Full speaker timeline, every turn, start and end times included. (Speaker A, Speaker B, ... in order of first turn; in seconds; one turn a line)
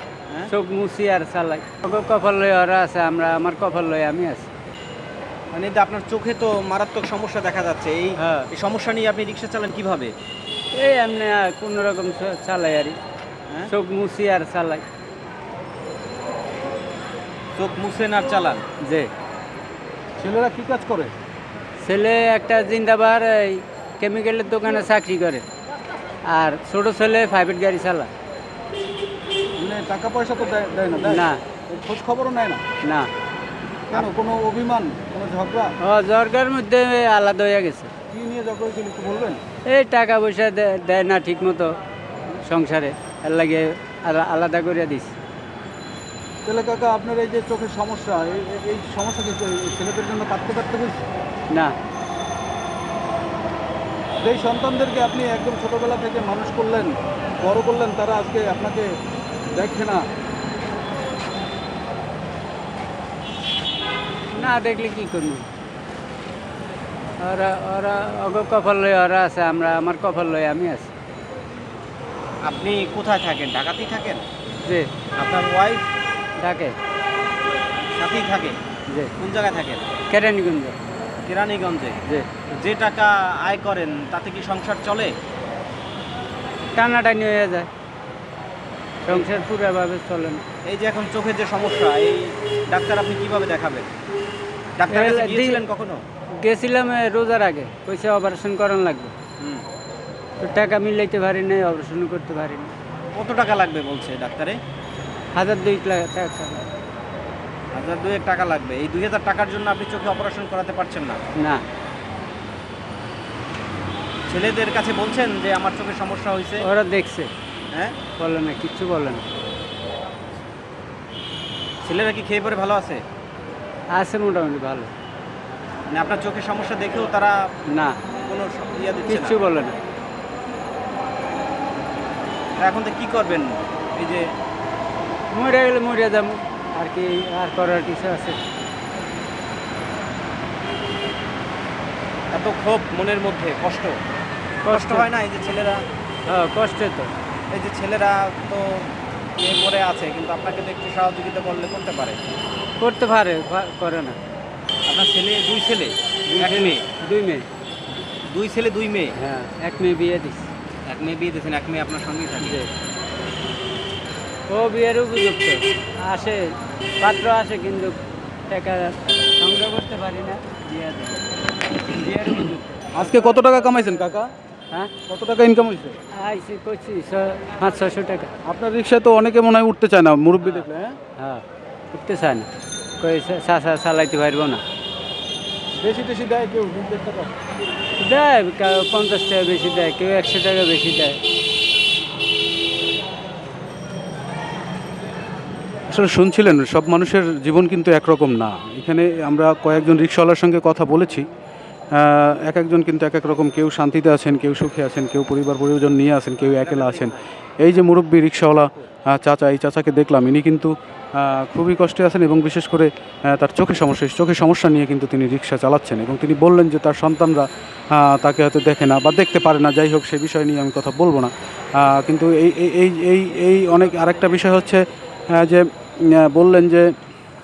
Speaker A: 0.5-4.5
Speaker B: 5.5-10.1
Speaker A: 8.2-8.5
Speaker A: 10.7-13.0
Speaker A: 13.7-14.8
Speaker B: 17.6-18.6
Speaker A: 18.8-19.1
Speaker C: 20.2-21.1
Speaker A: 21.8-25.4
Speaker A: 26.3-28.1
Speaker C: 29.6-32.6
Speaker A: 31.0-31.4
Speaker A: 32.8-33.1
Speaker C: 33.9-35.8
Speaker A: 35.8-37.9
Speaker C: 38.1-39.4
Speaker A: 39.7-41.8
Speaker A: 42.4-45.1
Speaker C: 46.5-51.0
Speaker C: 54.2-58.9
Speaker C: 59.5-60.0
Speaker A: 64.3-65.5
Speaker A: 67.2-70.9
Speaker B: 72.5-74.2
Speaker A: 74.7-74.9
Speaker B: 75.2-75.9
Speaker A: 76.4-76.8
Speaker B: 78.0-78.6
Speaker B: 79.2-79.8
Speaker A: 80.1-80.8
Speaker B: 81.3-82.0
Speaker B: 82.5-85.2
Speaker A: 86.8-87.7
Speaker A: 89.1-90.5
Speaker B: 90.7-93.9
Speaker B: 94.8-96.0
Speaker A: 94.9-95.6
Speaker A: 96.4-99.1
Speaker B: 99.4-99.7
Speaker A: 100.4-102.7
Speaker B: 103.1-104.6
Speaker A: 105.3-106.7
Speaker B: 107.7-111.2
Speaker A: 111.4-111.6
Speaker B: 114.3-116.6
Speaker A: 116.6-117.3
Speaker A: 118.2-119.3
Speaker B: 121.8-123.0
Speaker A: 123.9-124.9
Speaker B: 125.9-127.4
Speaker A: 127.7-128.0
Speaker B: 128.3-129.4
Speaker A: 129.1-129.8
Speaker B: 132.6-134.3
Speaker A: 135.3-138.4
Speaker B: 142.3-144.0
Speaker A: 144.7-145.1
Speaker B: 144.7-145.8
Speaker A: 146.3-147.1
Speaker B: 147.5-152.2
Speaker A: 152.8-154.2
Speaker B: 154.9-156.8
Speaker A: 156.3-157.5
Speaker B: 158.3-159.1
Speaker A: 159.2-160.5
Speaker B: 160.9-162.6
Speaker A: 162.4-162.7
Speaker A: 164.5-171.2
Speaker A: 171.8-173.1
Speaker C: 172.9-174.3
Speaker C: 175.1-176.0
Speaker A: 176.1-178.3
Speaker C: 178.4-181.0
Speaker A: 181.2-182.5
Speaker A: 183.0-184.6
Speaker C: 185.8-187.3
Speaker A: 188.0-191.2
Speaker C: 195.9-201.3
Speaker C: 201.9-226.9
Speaker B: 206.5-207.2